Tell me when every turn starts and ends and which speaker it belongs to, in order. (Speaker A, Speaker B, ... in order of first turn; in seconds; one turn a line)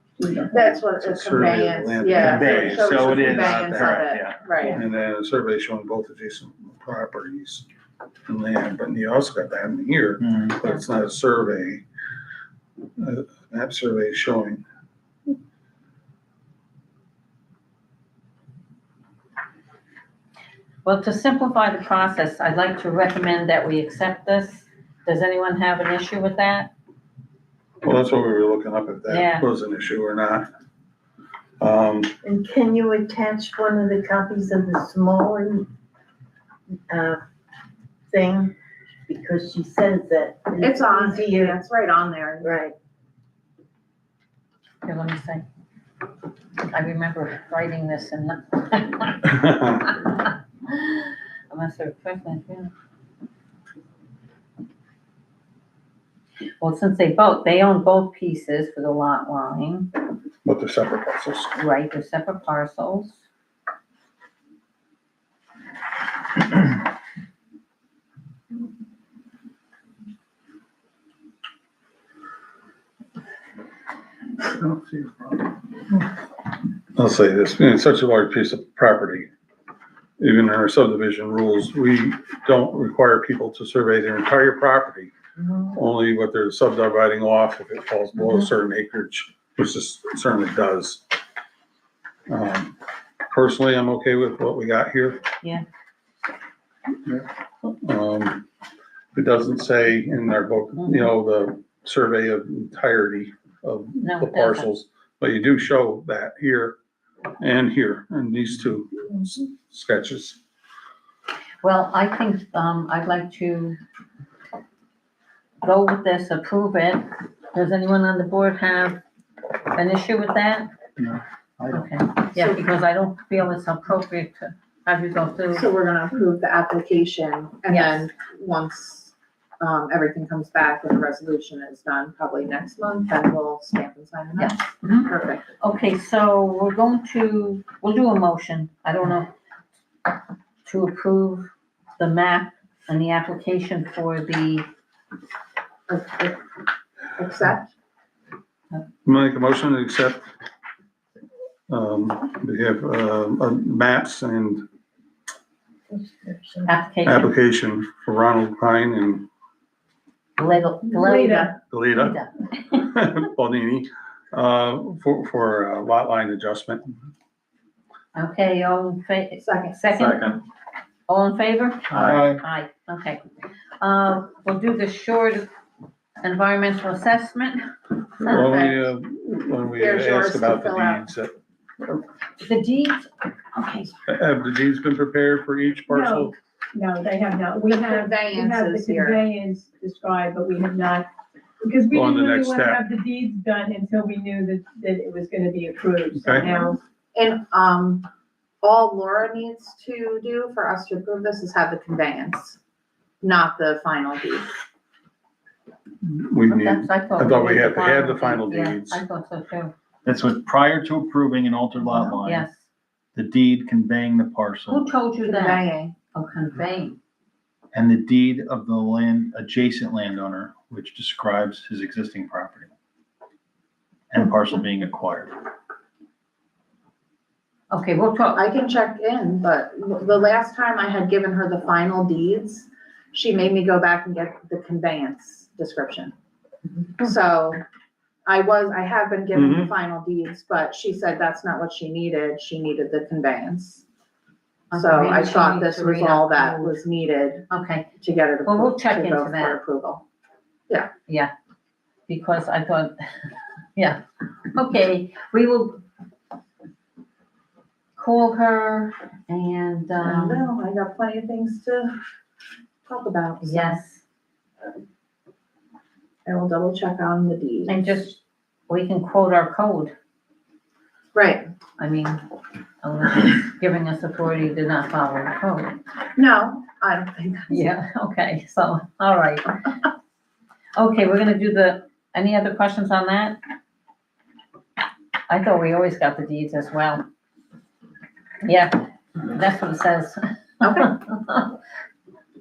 Speaker A: 0.2-0.8
Speaker B: 0.5-4.8
Speaker C: 0.9-3.6
Speaker D: 2.2-4.4
Speaker C: 4.7-7.7
Speaker C: 8.2-11.8
Speaker D: 10.2-10.5
Speaker C: 13.0-14.6
Speaker E: 20.8-26.7
Speaker C: 27.8-30.5
Speaker E: 29.1-29.4
Speaker C: 31.6-32.1
Speaker F: 32.2-35.7
Speaker F: 36.9-37.2
Speaker F: 38.1-38.5
Speaker F: 39.1-41.6
Speaker B: 40.6-42.5
Speaker F: 42.4-42.7
Speaker E: 44.8-45.4
Speaker E: 46.7-50.1
Speaker E: 50.7-52.7
Speaker E: 56.6-59.9
Speaker C: 60.4-61.6
Speaker E: 61.6-63.2
Speaker C: 74.5-75.1
Speaker C: 76.9-79.3
Speaker C: 80.2-85.1
Speaker C: 85.7-91.0
Speaker C: 92.3-92.7
Speaker C: 93.3-95.2
Speaker C: 97.8-98.5
Speaker C: 99.1-106.8
Speaker E: 100.8-101.1
Speaker E: 104.0-104.7
Speaker C: 107.4-110.4
Speaker E: 111.6-113.8
Speaker E: 115.6-119.0
Speaker E: 119.7-120.7
Speaker D: 121.0-121.8
Speaker E: 121.7-125.7
Speaker B: 125.5-135.4
Speaker E: 127.7-128.0
Speaker E: 134.3-139.3
Speaker E: 140.6-144.7
Speaker B: 145.9-146.4
Speaker B: 147.2-147.7
Speaker C: 149.0-150.3
Speaker C: 151.7-154.6
Speaker F: 155.9-156.7
Speaker E: 156.7-157.3
Speaker C: 157.0-159.3
Speaker E: 160.4-162.3
Speaker A: 160.9-161.6
Speaker C: 161.7-162.2
Speaker C: 162.7-166.9
Speaker E: 168.1-170.3
Speaker B: 169.4-169.8
Speaker D: 169.9-170.3
Speaker E: 171.1-173.2
Speaker D: 171.9-172.4
Speaker E: 173.8-175.5
Speaker E: 176.2-177.6
Speaker C: 178.2-181.3
Speaker B: 178.3-178.8
Speaker B: 179.8-181.1
Speaker E: 182.4-183.9
Speaker C: 184.1-186.3
Speaker A: 185.9-191.1
Speaker B: 187.6-189.2
Speaker A: 191.6-196.8
Speaker C: 191.9-192.8
Speaker C: 196.2-196.7
Speaker B: 197.1-198.1
Speaker B: 198.6-202.6
Speaker B: 203.2-204.5
Speaker C: 206.0-209.0
Speaker E: 206.5-209.7
Speaker D: 210.0-212.5
Speaker E: 212.0-212.6
Speaker D: 213.1-214.9
Speaker E: 214.7-217.0
Speaker B: 215.2-215.9
Speaker D: 217.7-222.7
Speaker D: 224.1-225.3
Speaker E: 227.7-228.4
Speaker B: 228.3-236.1
Speaker B: 237.0-237.6
Speaker B: 238.2-243.8
Speaker C: 239.3-239.7
Speaker E: 244.7-246.8
Speaker B: 244.7-247.5
Speaker E: 247.5-247.8
Speaker B: 248.0-250.0
Speaker E: 248.4-249.6
Speaker E: 252.1-252.9
Speaker E: 254.5-255.8
Speaker E: 258.0-260.5
Speaker B: 260.0-261.9
Speaker B: 262.9-263.8
Speaker E: 263.4-264.0
Speaker B: 266.2-267.8
Speaker E: 267.7-269.9
Speaker B: 271.1-271.4
Speaker E: 271.8-272.2
Speaker E: 272.8-275.8
Speaker B: 276.1-277.6
Speaker E: 277.5-279.5
Speaker E: 280.8-283.4
Speaker E: 285.3-287.0
Speaker E: 288.4-291.5
Speaker B: 290.6-290.9